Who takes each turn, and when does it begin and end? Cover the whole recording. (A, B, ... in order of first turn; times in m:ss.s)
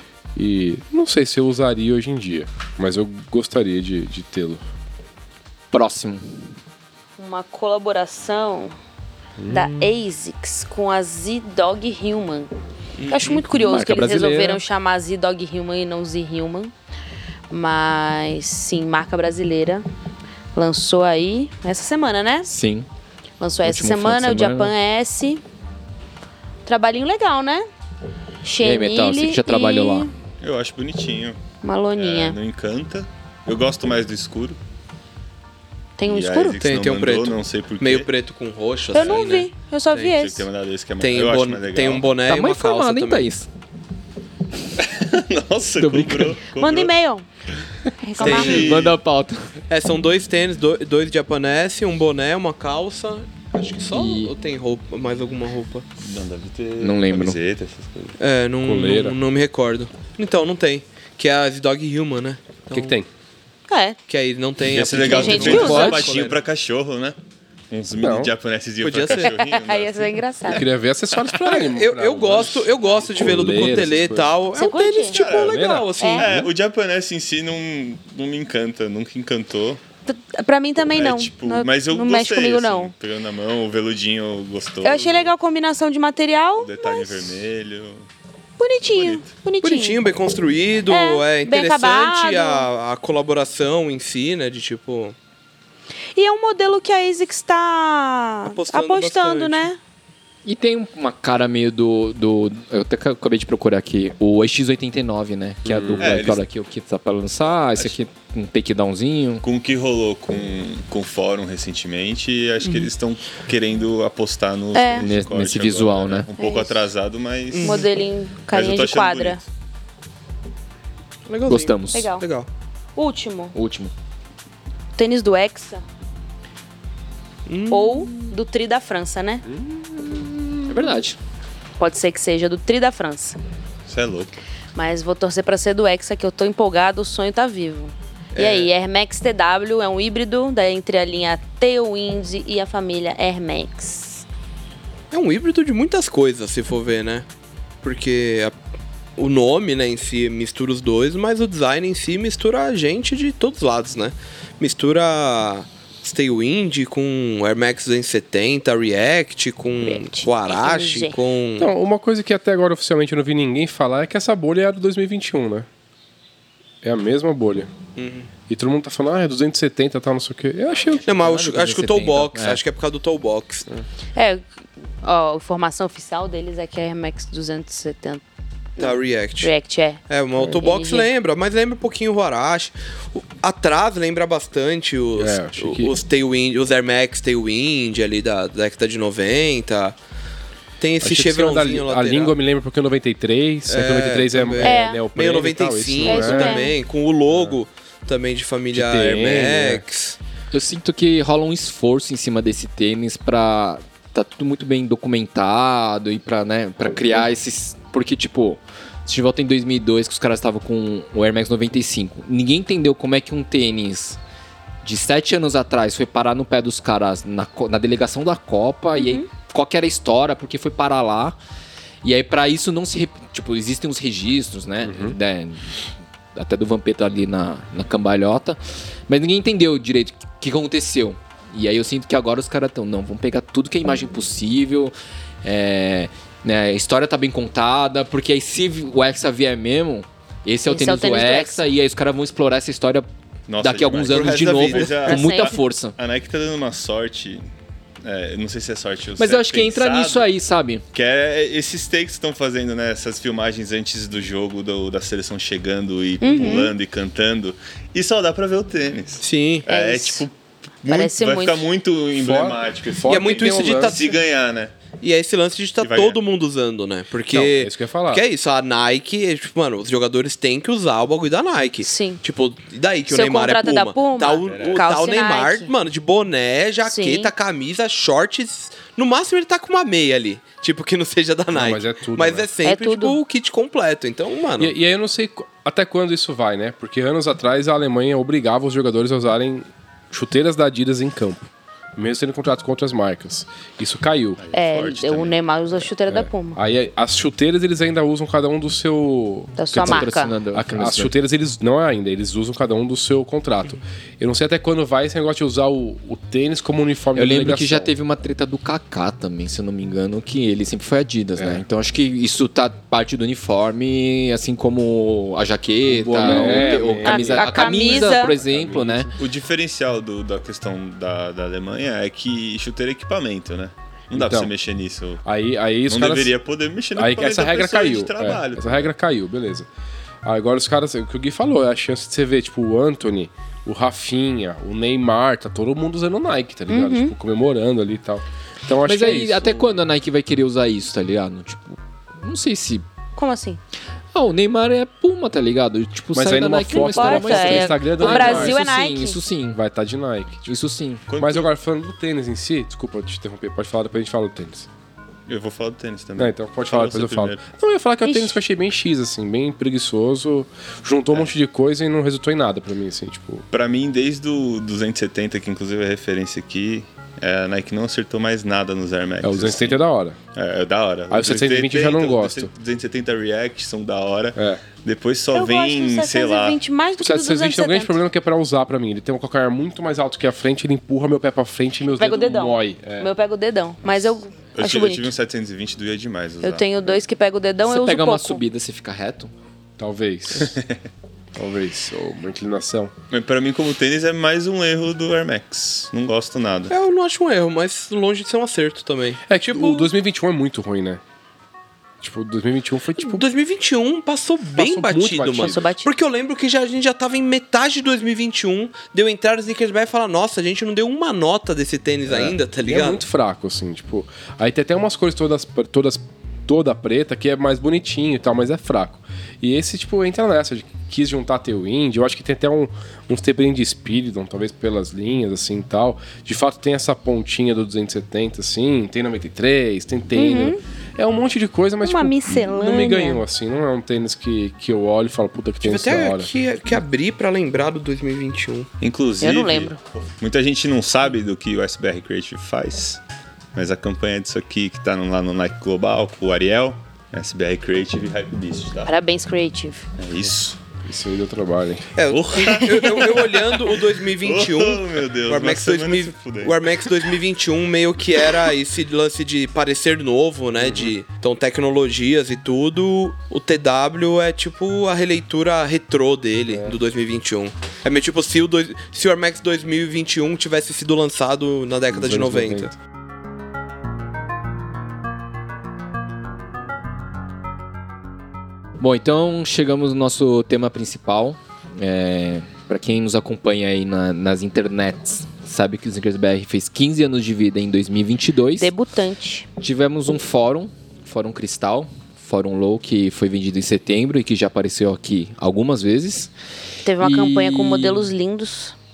0:00.3-0:04.6 A
0:05.7-0:06.3 B
0:07.2-0:08.7 C
0:09.4-0:09.9 A
0:09.5-0:12.5 C
0:13.0-0:13.4 D
0:13.1-0:16.7 C
0:13.5-0:14.6 B
0:17.5-0:19.8 C
0:20.5-0:22.5 C
0:22.5-0:22.8 B
0:23.4-0:25.4 C
0:23.6-0:24.7 B
0:26.6-0:27.6 C
0:28.4-0:30.1 C
0:28.6-0:30.1 B
0:30.4-0:31.4 E
0:31.6-0:32.4 C
0:32.0-0:34.6 E
0:36.0-0:36.6 C
0:36.0-0:38.1 E
0:36.6-0:40.1 D
0:38.9-0:40.5 C
0:38.9-0:39.3 E
0:40.0-0:42.1 E
0:41.0-0:43.3 D
0:42.3-0:43.5 B
0:44.8-0:46.9 E
0:45.8-0:46.4 B
0:46.5-0:47.2 C
0:48.0-0:48.7 C
0:48.2-0:49.0 E
0:48.2-0:48.9 D
0:48.2-0:49.5 B
0:49.7-0:55.9 D
0:53.9-0:54.3 B
0:56.0-0:58.2 E
0:56.8-0:57.4 B
0:58.2-1:03.0 D
0:58.6-0:59.2 A
1:02.7-1:03.1 A
1:03.7-1:04.0 C
1:04.1-1:06.4 D
1:04.6-1:07.2 E
1:05.0-1:06.2 C
1:05.4-1:06.0 B
1:07.7-1:10.5 E
1:08.0-1:08.3 A
1:08.8-1:09.3 D
1:09.1-1:10.7 C
1:10.4-1:14.3 A
1:11.1-1:11.4 E
1:11.4-1:16.4 D
1:14.5-1:15.2 C
1:15.1-1:19.8 E
1:15.3-1:16.5 A
1:16.0-1:16.3 C
1:20.0-1:22.9 C
1:20.9-1:25.3 E
1:24.8-1:27.4 C
1:26.6-1:28.1 E
1:28.6-1:30.0 C
1:28.9-1:29.3 E
1:29.6-1:35.1 D
1:30.9-1:32.7 C
1:36.1-1:39.8 C
1:38.4-1:39.7 D
1:40.4-1:49.4 B
1:45.6-1:46.2 A
1:46.0-1:46.4 E
1:49.4-1:57.9 E
1:52.6-1:52.9 D
1:54.7-1:55.1 C
1:55.0-1:56.3 B
1:56.4-1:56.8 C
1:57.5-1:57.9 D
1:57.6-1:59.4 C
1:58.5-1:59.4 E
2:01.3-2:02.5 D
2:01.5-2:02.1 B
2:01.9-2:02.2 C
2:03.0-2:03.6 C
2:03.5-2:03.9 B
2:05.0-2:05.8 C
2:07.5-2:08.3 D
2:07.7-2:09.4 C
2:09.5-2:10.9 A
2:10.7-2:11.2 B
2:11.8-2:13.4 C
2:13.9-2:14.4 E
2:14.7-2:24.2 C
2:18.3-2:18.7 D
2:25.1-2:27.2 D
2:27.8-2:28.5 D
2:29.2-2:41.7 D
2:39.8-2:41.2 C
2:41.6-2:45.7 A
2:46.8-2:47.7 A
2:48.0-2:48.3 D
2:48.5-2:51.1 A
2:51.0-2:52.6 B
2:51.0-2:53.7 D
2:54.1-2:54.4 C
2:55.0-2:58.2 C
2:58.8-3:01.1 C
2:58.8-2:59.5 D
3:00.1-3:10.0 D
3:05.2-3:05.9 A
3:10.8-3:12.3 D
3:11.0-3:16.6 A
3:13.7-3:20.2 D
3:14.6-3:15.0 C
3:16.0-3:16.7 C
3:17.3-3:17.6 A
3:18.7-3:19.8 A
3:20.5-3:34.2 B
3:34.8-3:41.4 B
3:38.9-3:39.2 C
3:42.0-3:45.7 B
3:44.8-3:45.2 A
3:46.3-4:03.1 B
4:00.6-4:01.6 C
4:03.5-4:07.5 E
4:03.6-4:06.0 B
4:04.1-4:05.0 D
4:05.0-4:05.6 C
4:08.0-4:10.3 E
4:09.2-4:10.8 B
4:10.9-4:24.7 E
4:16.2-4:16.7 C
4:19.2-4:19.6 D
4:19.6-4:20.2 C
4:20.9-4:21.7 C
4:22.1-4:24.0 A
4:23.1-4:24.2 D
4:25.0-4:44.7 D
4:25.8-4:26.2 E
4:27.3-4:28.2 A
4:31.8-4:32.2 C
4:33.1-4:35.7 C
4:34.4-4:34.8 E
4:36.9-4:37.3 C
4:41.5-4:42.5 A
4:42.6-4:43.2 C
4:44.6-4:54.4 A
4:54.4-4:55.4 E
4:54.5-4:56.6 C
4:56.1-5:07.9 A
4:59.6-5:00.4 C
4:59.7-5:01.1 B
5:07.1-5:19.1 B
5:11.4-5:11.6 A
5:15.8-5:19.3 A
5:16.2-5:18.4 C
5:19.2-5:25.2 E
5:24.1-5:24.5 A
5:25.2-5:26.3 A
5:25.9-5:28.9 E
5:26.9-5:29.7 A
5:30.2-5:39.7 A
5:36.7-5:37.1 C
5:38.8-5:42.8 B
5:43.2-5:43.6 C
5:44.1-5:49.6 B
5:46.1-5:48.6 A
5:46.7-5:49.2 C
5:49.5-5:50.5 A
5:50.5-5:51.0 B
5:51.1-5:51.5 E
5:51.2-5:54.7 A
5:55.3-5:57.4 E
5:56.2-6:03.4 A
5:58.0-5:58.4 C
6:03.5-6:09.8 E
6:09.2-6:10.2 A
6:10.3-6:16.6 E
6:11.1-6:12.5 A
6:14.4-6:14.6 A
6:15.3-6:18.0 C
6:17.0-6:23.1 A
6:22.0-6:25.1 C
6:24.5-6:26.7 E
6:26.4-6:28.4 C
6:27.6-6:29.3 B
6:29.8-6:30.6 A
6:30.4-6:30.8 E
6:31.4-6:32.9 A
6:33.1-6:36.7 E
6:36.7-6:39.9 D
6:39.3-6:41.0 A
6:42.0-6:43.2 A
6:43.0-6:53.0 D
6:44.6-6:45.7 A
6:45.3-6:45.9 C
6:52.1-7:16.3 A
7:10.1-7:10.6 C
7:11.8-7:13.2 C
7:15.6-7:18.7 D
7:18.8-7:23.0 E
7:19.2-7:19.8 C
7:23.5-7:28.9 E
7:28.8-7:29.9 C
7:30.0-7:30.6 E
7:30.8-7:32.0 A
7:31.9-7:52.7 D
7:32.1-7:36.9 E
7:40.6-7:40.9 A
7:46.5-7:46.8 A
7:51.9-7:52.7 A
7:58.8-8:08.7 B
8:08.6-8:09.5 C
8:09.6-8:16.3 B
8:16.8-8:18.7 C
8:17.0-8:18.1 B